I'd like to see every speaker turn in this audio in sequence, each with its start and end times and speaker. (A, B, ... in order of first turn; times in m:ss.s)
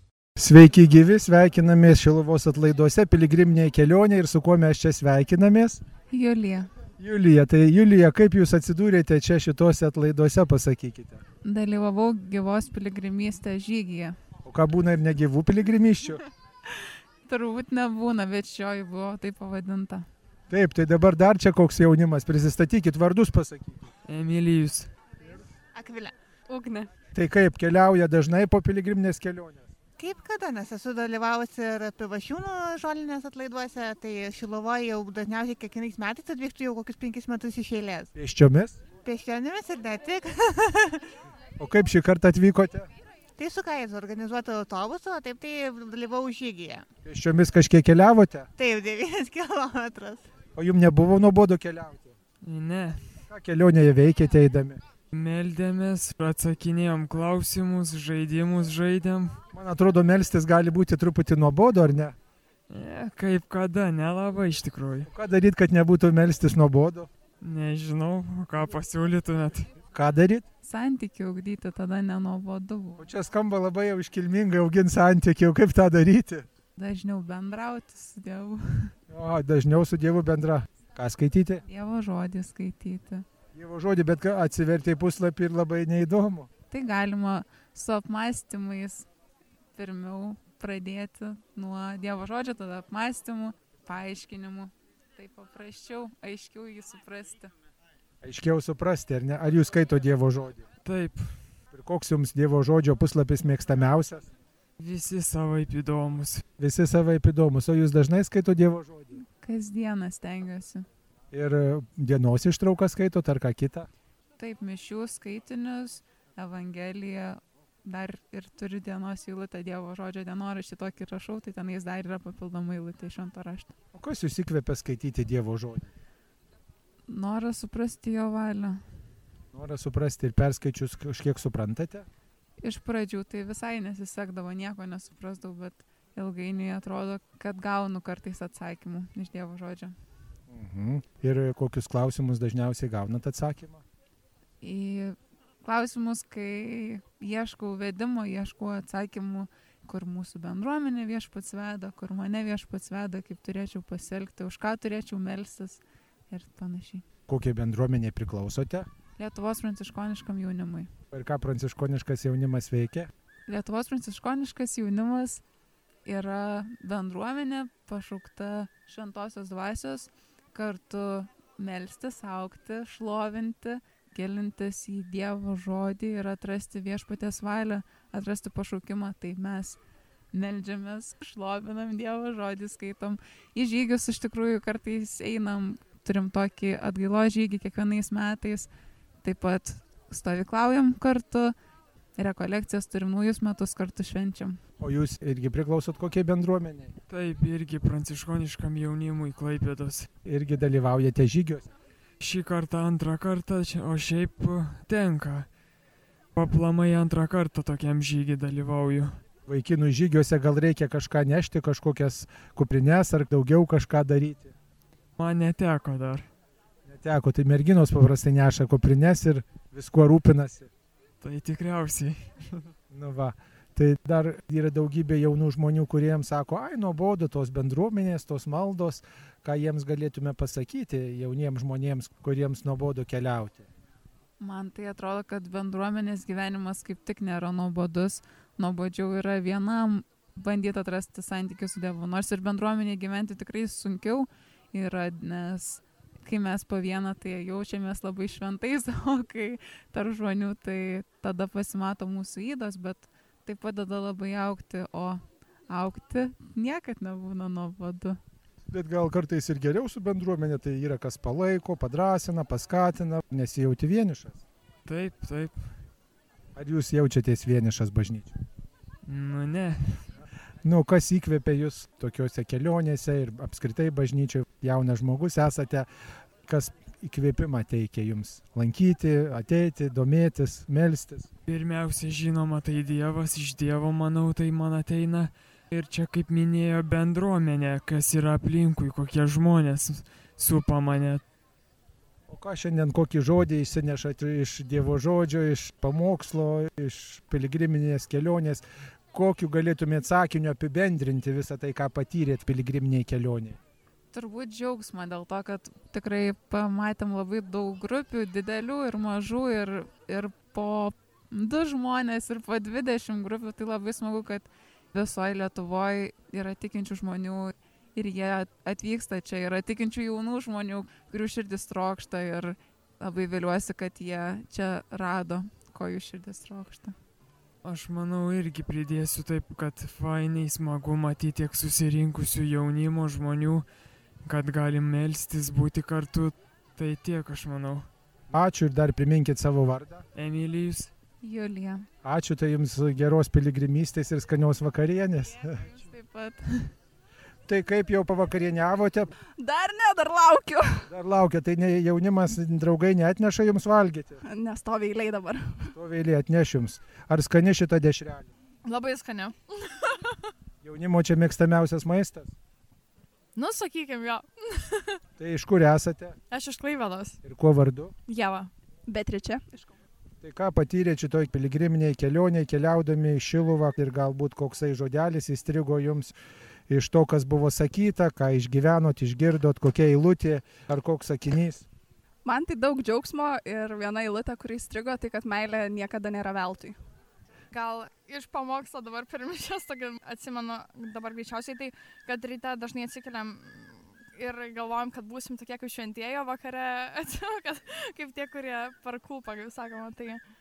0:00.4-0:05.8 A
0:06.1-0:06.7 B
0:07.0-0:11.2 A
0:11.4-0:14.2 B
0:14.4-0:16.2 A
0:17.3-0:20.1 B
0:20.5-0:23.9 A
0:24.1-0:24.9 C
0:25.7-0:26.1 D
0:27.1-0:29.7 A
0:30.0-0:38.1 D
0:38.2-0:38.8 A
0:39.0-0:41.0 D
0:41.6-0:42.9 A
0:43.4-0:46.8 D
0:47.0-0:48.5 A
0:48.6-0:50.2 D
0:50.6-0:52.1 A
0:52.4-0:53.1 C
0:53.3-0:54.8 A
0:55.1-0:59.4 C
0:59.5-1:02.2 A
1:02.7-1:05.1 C
1:05.1-1:07.1 A
1:07.4-1:09.7 C
1:09.9-1:10.4 A
1:10.6-1:13.0 B
1:13.0-1:16.5 A
1:16.8-1:18.9 B
1:19.1-1:21.6 A
1:21.6-1:23.2 B
1:23.5-1:26.5 A
1:26.7-1:29.1 B
1:29.8-1:37.5 B
1:38.2-1:40.7 A
1:40.8-1:41.3 C
1:41.7-1:44.3 A
1:44.8-1:46.4 C
1:46.6-1:49.2 A
1:49.2-1:50.8 B
1:51.3-1:53.9 A
1:54.4-2:03.7 B
2:03.9-2:05.9 A
2:07.1-2:08.8 B
2:09.5-2:12.1 A
2:12.6-2:20.0 B
2:20.5-2:23.8 A
2:24.6-2:37.0 B
2:37.3-2:38.9 A
2:39.2-2:40.9 B
2:41.1-2:43.1 A
2:43.5-2:45.4 B
2:46.1-2:59.8 B
3:00.3-3:08.7 B
3:09.2-3:11.6 B
3:12.2-3:14.6 B
3:14.8-3:16.9 A
3:17.1-3:20.1 C
3:20.2-3:21.7 A
3:22.2-3:25.5 C
3:26.4-3:29.2 C
3:29.5-3:34.5 A
3:35.2-3:36.3 C
3:36.8-3:40.7 A
3:41.2-3:42.2 C
3:42.9-3:53.7 A
3:54.4-4:18.2 B
4:18.7-4:24.4 A
4:24.8-4:25.7 C
4:26.6-4:28.4 A
4:29.0-4:30.0 C
4:30.6-4:35.9 A
4:36.4-4:41.3 A
4:41.5-4:51.2 C
4:52.3-5:03.6 A
5:04.1-5:27.0 B
5:27.6-5:33.7 C
5:34.2-5:37.9 C
5:38.3-5:40.1 A
5:40.2-5:40.9 C
5:41.2-5:41.9 B
5:42.0-5:45.6 A
5:45.6-5:46.7 B
5:47.5-5:49.1 A
5:49.4-5:50.9 E
5:50.9-5:54.2 A
5:54.2-5:55.7 E
5:55.7-5:58.3 A
5:58.6-6:00.0 F
6:00.6-6:02.3 A
6:03.4-6:04.8 F
6:05.2-6:06.2 A
6:06.3-6:07.2 F
6:07.2-6:08.0 A
6:08.1-6:08.5 F
6:08.9-6:09.7 E
6:10.2-6:16.1 A
6:16.7-6:21.7 A
6:22.2-6:26.8 E
6:27.5-6:40.2 F